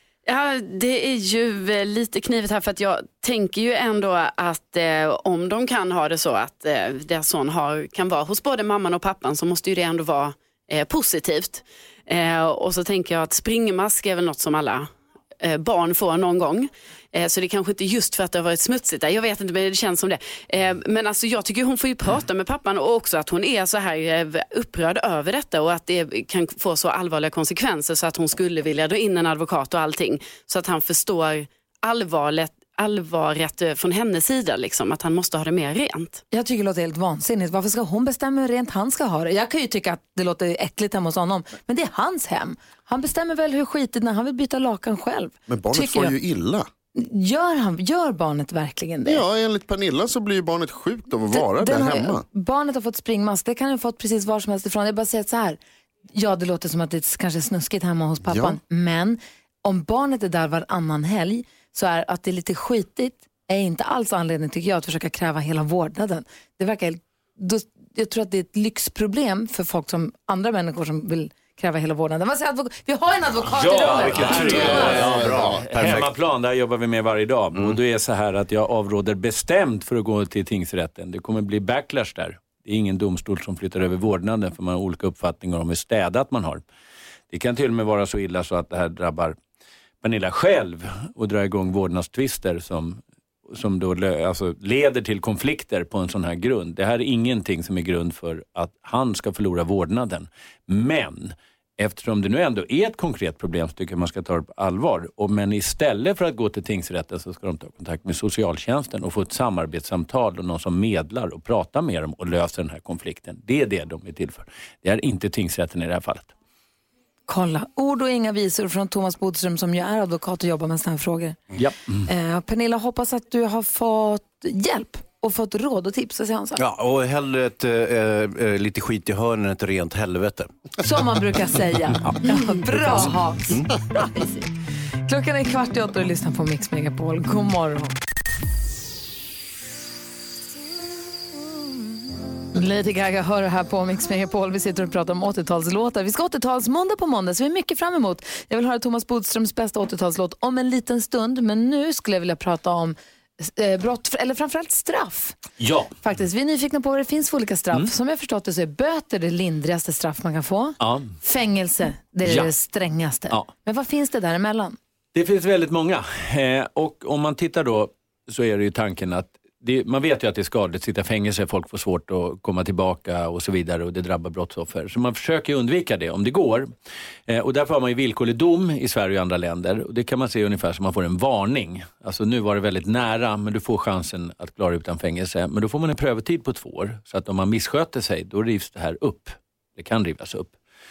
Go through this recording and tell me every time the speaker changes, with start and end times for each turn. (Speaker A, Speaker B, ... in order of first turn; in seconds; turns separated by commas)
Speaker A: 0.3-36.2, Speaker B: 36.3-46.1, Speaker C: 45.5-46.7, Speaker B: 47.0-49.2, Speaker C: 49.0-52.2, Speaker B: 51.3-55.6, Speaker B: 56.1-75.0, Speaker C: 58.3-58.6, Speaker D: 73.5-86.6, Speaker E: 73.8-76.1, Speaker C: 74.4-75.6, Speaker D: 87.3-89.4, Speaker D: 90.0-116.3, Speaker B: 117.3-121.4, Speaker D: 121.6-122.1, Speaker B: 122.1-126.6, Speaker E: 126.6-130.5, Speaker B: 130.8-134.5, Speaker E: 132.7-133.7, Speaker B: 135.1-138.0, Speaker B: 142.5-155.4, Speaker D: 155.6-155.9, Speaker B: 156.0-164.8, Speaker D: 160.8-161.2, Speaker D: 162.2-162.5, Speaker D: 165.1-176.7, Speaker D: 177.3-190.6